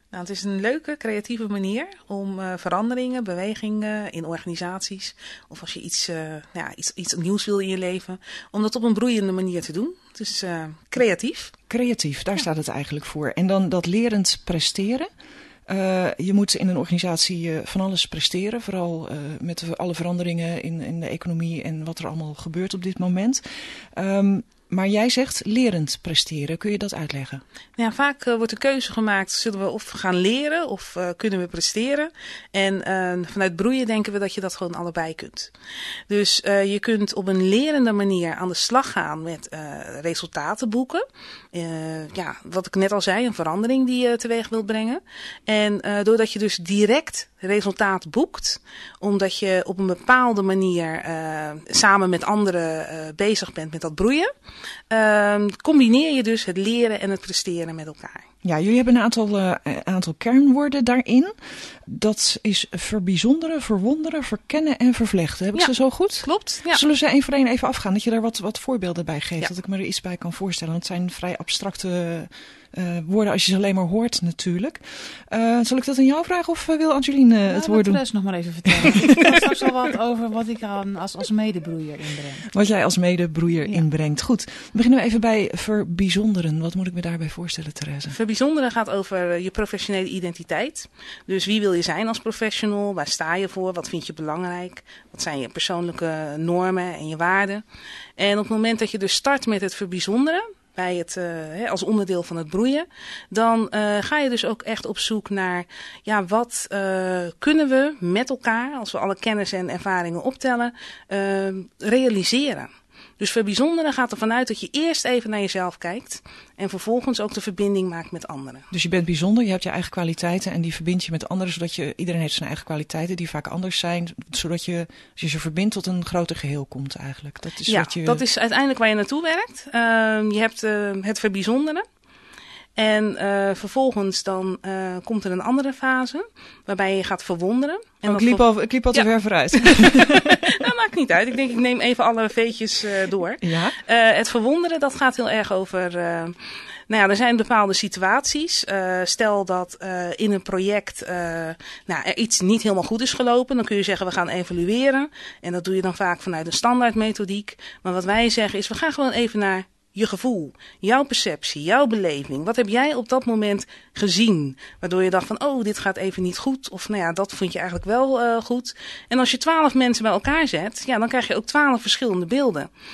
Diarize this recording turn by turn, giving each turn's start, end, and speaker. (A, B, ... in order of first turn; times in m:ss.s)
0:00.1-0:11.6 A
0:11.7-0:15.1 B
0:15.7-0:23.4 B
0:24.0-0:27.4 B
0:27.8-0:35.5 A
0:36.1-0:54.3 A
0:54.9-0:58.3 A
0:58.4-1:18.0 B
1:05.5-1:06.8 A
1:17.5-1:22.5 C
1:18.6-1:18.9 B
1:22.5-1:28.2 B
1:28.1-1:37.6 A
1:38.2-1:58.7 A
1:58.7-2:08.2 B
2:07.6-2:11.8 A
2:12.8-2:26.4 A
2:18.0-2:20.4 B
2:23.4-2:23.8 B
2:26.9-2:52.7 A